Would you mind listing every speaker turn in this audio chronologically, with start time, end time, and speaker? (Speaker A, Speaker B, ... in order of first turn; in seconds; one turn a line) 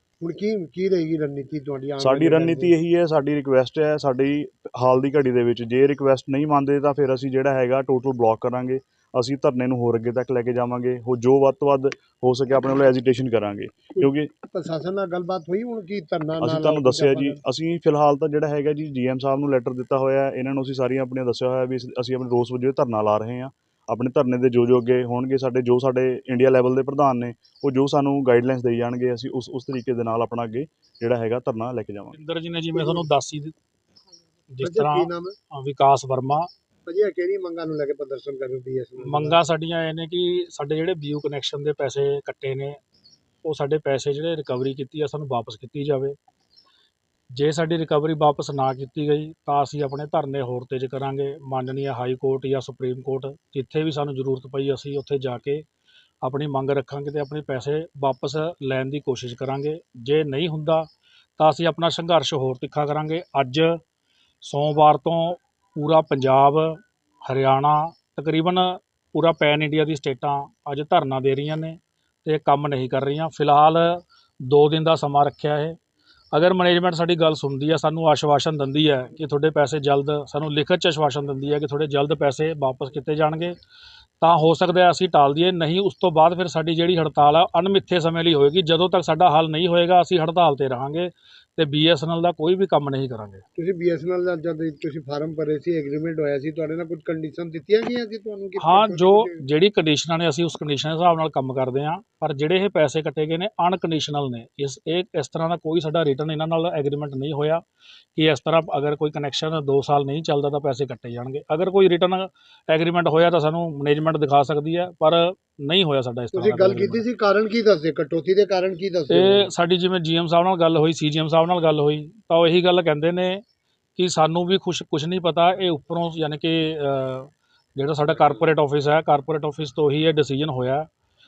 Speaker A: 0.2-2.8
Speaker B: 2.0-14.3
Speaker A: 13.9-17.4
Speaker B: 16.4-32.1
Speaker C: 32.1-33.5
Speaker A: 32.7-33.0
Speaker C: 34.5-36.5
Speaker A: 34.6-35.4
Speaker A: 36.9-39.4
Speaker C: 39.0-42.8
Speaker C: 43.4-46.1
Speaker C: 47.3-55.6
Speaker C: 56.2-63.8
Speaker C: 64.4-75.8
Speaker C: 76.3-83.5
Speaker C: 84.2-93.4
Speaker A: 93.5-99.4
Speaker C: 98.6-107.6
Speaker C: 108.1-117.0
Speaker A: 116.3-119.5
Speaker C: 119.1-123.4
Speaker C: 124.0-130.9